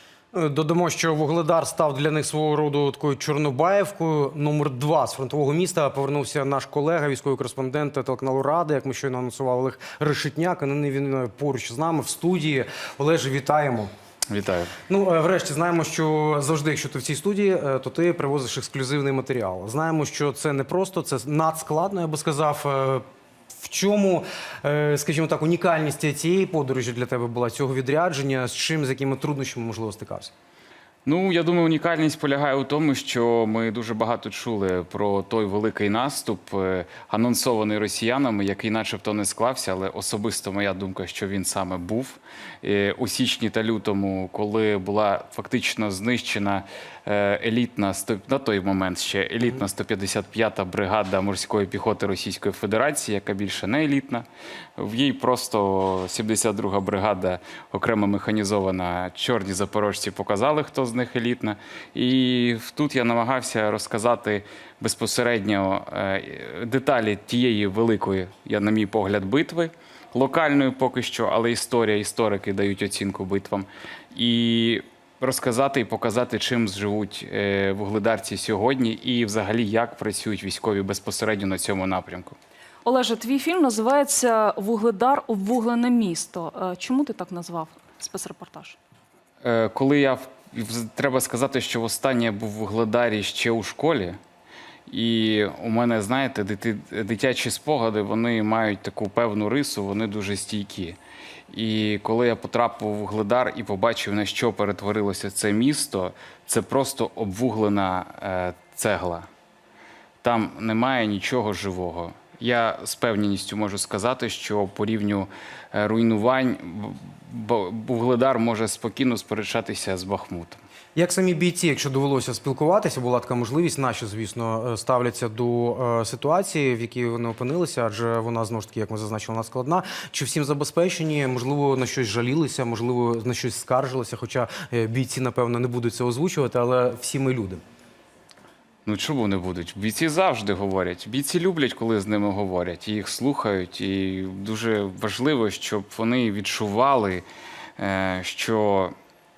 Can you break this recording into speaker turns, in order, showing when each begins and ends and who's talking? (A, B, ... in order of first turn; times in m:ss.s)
0:00.3-0:13.9 A
0:14.3-0:14.7 B
0:14.9-0:23.1 A
0:23.6-0:30.3 A
0:31.0-0:54.3 B
0:54.8-1:22.4 B
1:22.8-1:28.8 C
1:29.4-1:34.2 B
1:34.9-1:41.0 B
1:41.5-1:49.3 B
1:50.2-2:00.6 B
2:01.0-2:17.6 A
2:18.9-2:27.2 B
2:27.8-2:29.0 B